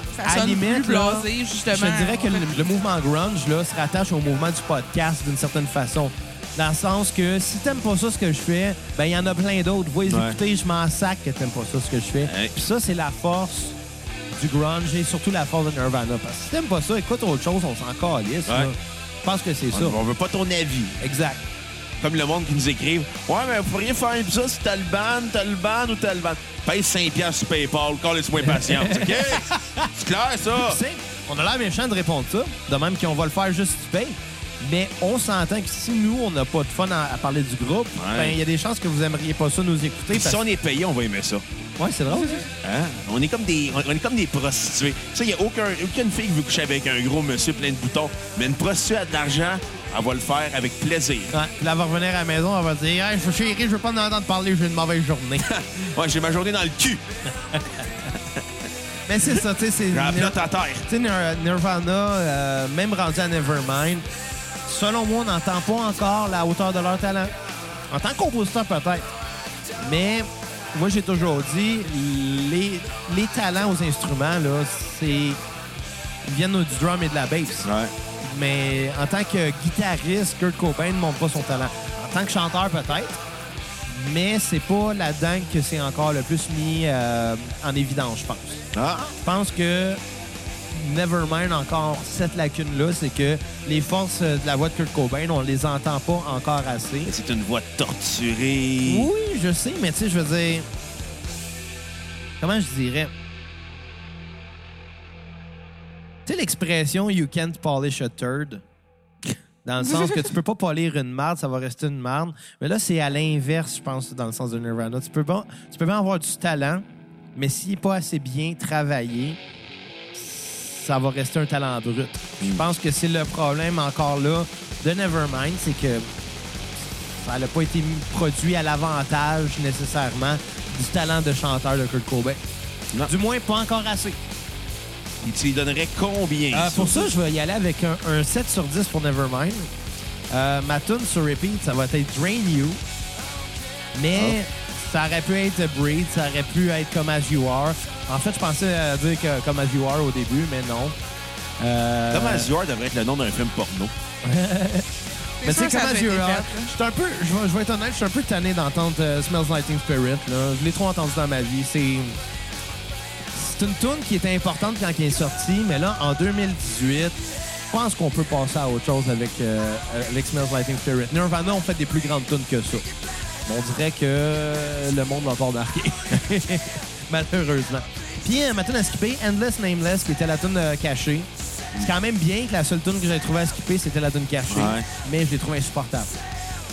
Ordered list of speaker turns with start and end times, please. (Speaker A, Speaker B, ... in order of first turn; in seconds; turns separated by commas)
Speaker A: 0.1-2.7, Speaker B: 0.2-13.8, Speaker C: 10.1-10.4, Speaker C: 12.2-12.5, Speaker B: 14.3-20.0, Speaker C: 19.7-21.0, Speaker B: 21.0-21.4, Speaker C: 22.0-30.8, Speaker B: 28.4-29.9, Speaker B: 30.5-40.4, Speaker C: 38.0-38.4, Speaker C: 40.1-41.4, Speaker B: 41.8-42.5, Speaker C: 42.6-51.4, Speaker B: 51.3-55.5, Speaker C: 55.4-57.0, Speaker B: 57.5-57.8, Speaker B: 59.1-64.1, Speaker C: 59.9-60.9, Speaker B: 64.7-67.3, Speaker B: 67.9-69.1, Speaker B: 69.8-75.4, Speaker B: 76.2-77.7, Speaker C: 77.6-77.9, Speaker B: 78.2-83.2, Speaker B: 83.9-88.6, Speaker C: 88.7-89.1, Speaker B: 89.2-90.0, Speaker B: 90.7-97.1, Speaker C: 97.0-99.1, Speaker B: 98.8-100.7, Speaker B: 102.4-103.1, Speaker B: 106.3-108.6, Speaker B: 109.6-116.8, Speaker A: 109.9-110.3, Speaker B: 117.3-119.4, Speaker B: 120.1-126.1, Speaker B: 126.8-132.4, Speaker B: 133.1-134.2, Speaker C: 135.2-137.1, Speaker B: 136.5-139.7, Speaker B: 140.3-142.8, Speaker B: 143.9-151.0, Speaker B: 151.6-152.5, Speaker C: 152.1-153.9, Speaker B: 154.2-154.9, Speaker A: 155.4-156.7, Speaker B: 155.4-162.2, Speaker B: 163.3-172.9, Speaker B: 173.5-186.2, Speaker C: 184.5-184.9